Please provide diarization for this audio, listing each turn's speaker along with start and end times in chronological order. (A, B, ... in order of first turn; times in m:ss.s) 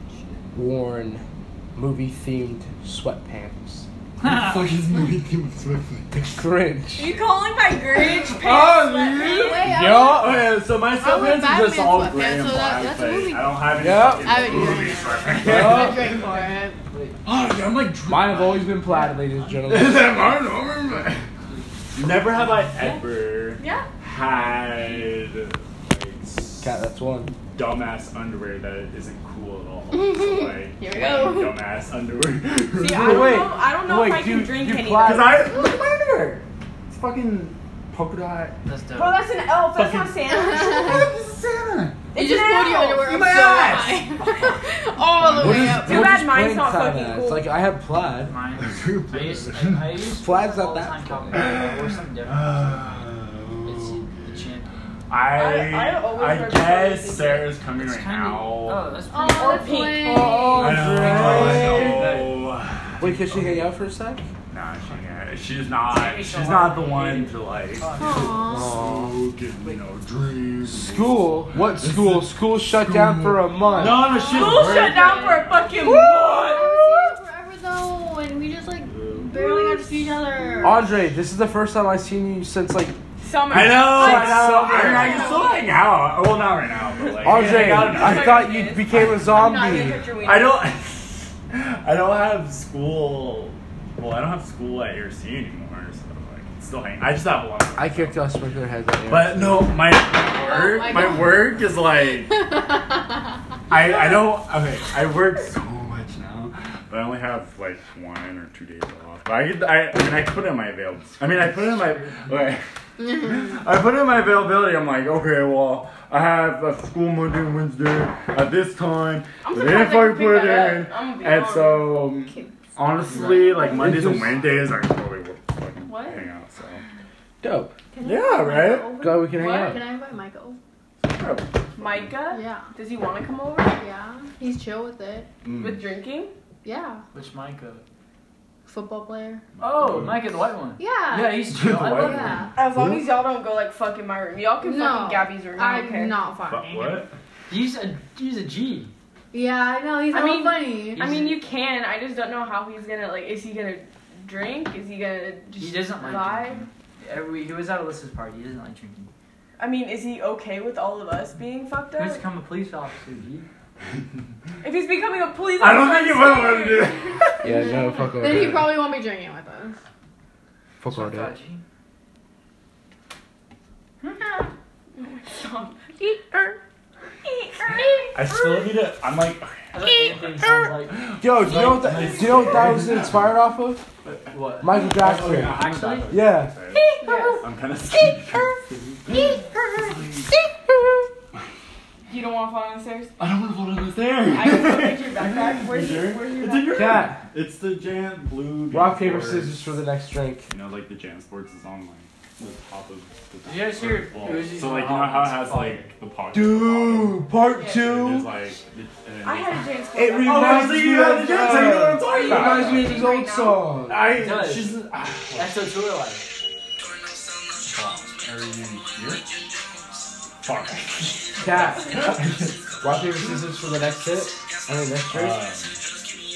0:00.5-0:01.2 A
0:01.8-0:03.9 A
0:04.2-0:06.2 B
0:06.2-0:07.1 A
0:07.0-0:09.7 C
0:08.3-0:16.2 B
0:08.5-0:10.4 D
0:09.6-0:10.4 A
0:10.9-0:16.8 D
0:13.7-0:14.6 A
0:15.4-0:16.1 A
0:16.8-0:17.2 E
0:17.2-0:18.9 B
0:18.1-0:21.0 A
0:18.6-0:21.7 E
0:19.7-0:21.2 B
0:21.9-0:26.8 B
0:22.3-0:23.0 E
0:23.6-0:23.9 C
0:24.3-0:25.1 E
0:26.6-0:27.3 A
0:27.5-0:33.4 B
0:29.9-0:31.5 D
0:30.8-0:31.6 C
0:32.8-0:35.5 C
0:32.9-0:35.4 A
0:35.0-0:38.6 B
0:38.6-0:39.2 E
0:38.9-0:41.0 C
0:39.7-0:40.2 B
0:40.3-0:41.1 D
0:40.8-0:42.1 B
0:42.1-0:43.6 C
0:42.2-0:46.0 D
0:43.0-0:44.6 B
0:45.1-0:46.1 B
0:45.4-0:48.4 A
0:45.9-0:47.5 C
0:48.2-0:53.0 E
0:48.6-0:49.8 B
0:50.2-0:51.6 A
0:51.3-0:54.3 B
0:53.6-0:54.7 E
0:55.1-0:58.9 B
0:55.3-0:57.6 C
0:57.7-1:00.0 E
0:59.1-1:01.4 D
0:59.2-1:00.5 C
1:00.0-1:02.0 A
1:00.5-1:03.6 B
1:00.8-1:02.5 E
1:03.0-1:04.2 A
1:04.5-1:08.0 B
1:04.8-1:08.5 E
1:08.0-1:08.8 D
1:08.5-1:09.2 A
1:08.7-1:15.9 B
1:10.7-1:14.2 A
1:14.0-1:20.8 D
1:14.4-1:17.2 C
1:18.9-1:19.2 B
1:19.2-1:20.9 C
1:20.6-1:23.0 A
1:23.2-1:24.6 C
1:23.5-1:25.5 A
1:23.5-1:29.5 B
1:24.1-1:25.7 D
1:27.0-1:30.7 C
1:27.2-1:30.1 A
1:27.4-1:28.0 D
1:29.6-1:30.0 D
1:30.2-1:38.3 B
1:37.8-1:39.8 A
1:39.0-1:42.4 B
1:40.4-1:41.5 D
1:43.7-2:06.8 B
1:51.2-1:52.6 E
1:59.4-2:02.0 C
2:02.0-2:02.5 D
2:03.1-2:03.9 C
2:03.3-2:03.6 D
2:03.6-2:04.6 A
2:05.9-2:06.3 C
2:07.4-2:07.7 A
2:07.9-2:10.6 D
2:08.0-2:09.0 B
2:09.0-2:09.8 A
2:09.4-2:09.7 C
2:11.0-2:12.1 B
2:11.8-2:13.8 C
2:12.3-2:12.7 D
2:13.8-2:15.3 D
2:15.4-2:15.8 B
2:15.6-2:16.3 C
2:16.6-2:17.0 D
2:17.1-2:17.8 E
2:18.7-2:19.4 D
2:19.6-2:20.4 B
2:19.6-2:22.5 E
2:20.8-2:22.6 D
2:21.5-2:23.0 B
2:22.6-2:26.2 C
2:24.6-2:27.0 D
2:26.5-2:27.1 B
2:27.5-2:28.9 E
2:29.3-2:31.1 D
2:30.1-2:36.7 C
2:30.9-2:31.4 E
2:35.6-2:39.1 E
2:39.6-2:42.2 C
2:42.0-2:43.5 E
2:44.6-2:47.0 C
2:45.6-2:47.5 B
2:47.4-2:48.8 A
2:47.6-2:49.8 D
2:50.8-2:51.3 A
2:50.9-2:51.6 E
2:54.1-2:54.4 C
2:54.9-2:55.9 C
2:56.0-2:56.5 A
2:56.2-2:56.6 D
2:57.2-2:58.8 C
2:58.1-3:03.3 B
2:59.7-3:01.0 E
3:01.2-3:03.8 A
3:04.0-3:04.3 B
3:04.3-3:04.8 E
3:04.6-3:06.6 A
3:04.9-3:10.3 B
3:05.4-3:06.2 E
3:06.7-3:07.4 D
3:07.0-3:07.5 C
3:09.1-3:09.4 D
3:10.7-3:11.1 A
3:12.1-3:13.1 C
3:13.2-3:19.6 B
3:14.2-3:17.1 C
3:16.7-3:17.2 A
3:18.7-3:20.5 A
3:20.5-3:29.7 B
3:23.4-3:25.9 E
3:26.3-3:28.3 A
3:27.4-3:27.9 C
3:29.2-3:30.8 C
3:30.0-3:34.1 A
3:30.2-3:33.0 B
3:31.4-3:33.7 C
3:33.9-3:35.7 B
3:34.1-3:34.8 E
3:35.4-3:36.3 E
3:37.7-3:39.3 B
3:40.4-3:43.4 B
3:41.4-3:42.2 A
3:42.8-3:45.4 A
3:45.1-3:45.8 B